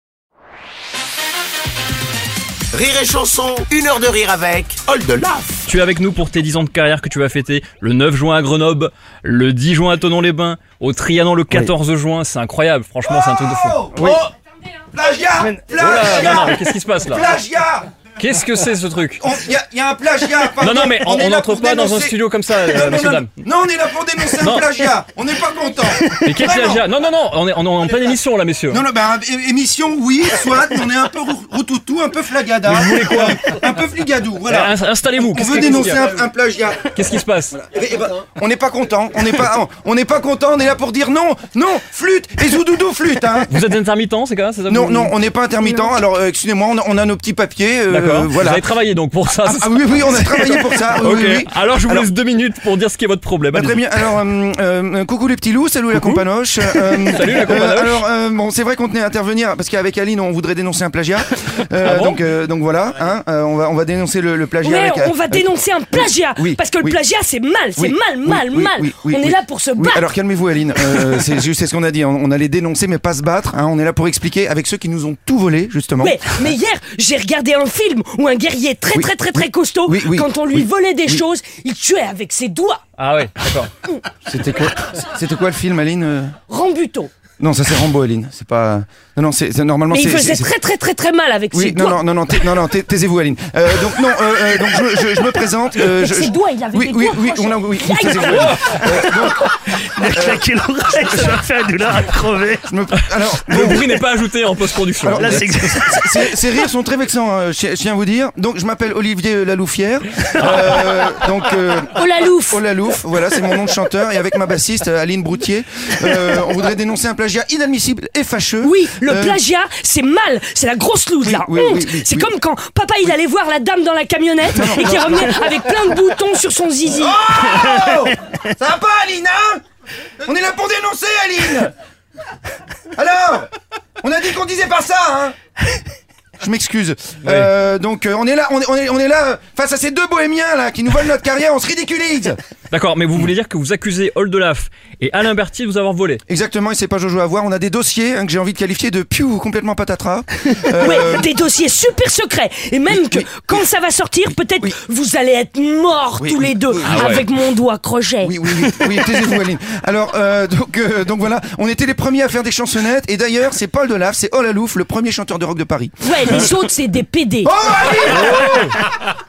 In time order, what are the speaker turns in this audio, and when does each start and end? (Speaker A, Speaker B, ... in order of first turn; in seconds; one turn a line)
Speaker A: 2.7-5.6
Speaker B: 5.7-13.9
Speaker C: 13.0-14.3
Speaker D: 14.0-14.2
Speaker C: 14.9-17.9
Speaker D: 15.4-15.8
Speaker B: 15.7-17.3
Speaker B: 18.2-19.2
Speaker C: 19.2-26.8
Speaker B: 20.6-23.3
Speaker B: 24.4-24.9
Speaker B: 26.2-28.8
Speaker C: 28.7-43.5
Speaker B: 32.7-33.6
Speaker B: 34.5-36.1
Speaker B: 36.9-37.6
Speaker B: 43.5-45.1
Speaker C: 44.7-48.6
Speaker B: 47.9-53.8
Speaker C: 49.4-52.1
Speaker C: 53.5-67.0
Speaker B: 55.9-58.0
Speaker B: 61.8-62.2
Speaker E: 64.6-70.1
Speaker C: 67.8-76.5
Speaker E: 76.0-82.8
Speaker C: 78.9-81.2
Speaker B: 83.0-83.7
Speaker C: 84.2-86.4
Speaker E: 86.5-87.1
Speaker C: 87.4-90.5
Speaker E: 89.9-92.0
Speaker C: 91.5-99.5
Speaker E: 95.9-98.5
Speaker B: 98.1-98.8
Speaker D: 98.8-102.7
Speaker C: 100.1-100.5
Speaker C: 101.1-101.3
Speaker C: 102.7-103.9
Speaker B: 103.0-105.5
Speaker C: 105.0-119.4
Speaker D: 105.2-106.3
Speaker E: 111.9-112.6
Speaker E: 118.6-127.2
Speaker C: 121.2-122.3
Speaker C: 124.5-125.5
Speaker C: 126.9-129.6
Speaker D: 127.4-127.9
Speaker C: 130.2-131.7
Speaker C: 132.9-135.3
Speaker C: 136.4-142.4
Speaker B: 137.2-137.5
Speaker B: 142.7-146.2
Speaker C: 146.3-151.3
Speaker E: 150.8-158.3
Speaker C: 152.9-153.7
Speaker C: 156.2-157.3
Speaker B: 156.9-157.2
Speaker C: 158.2-166.6
Speaker E: 166.0-167.5
Speaker C: 167.4-168.8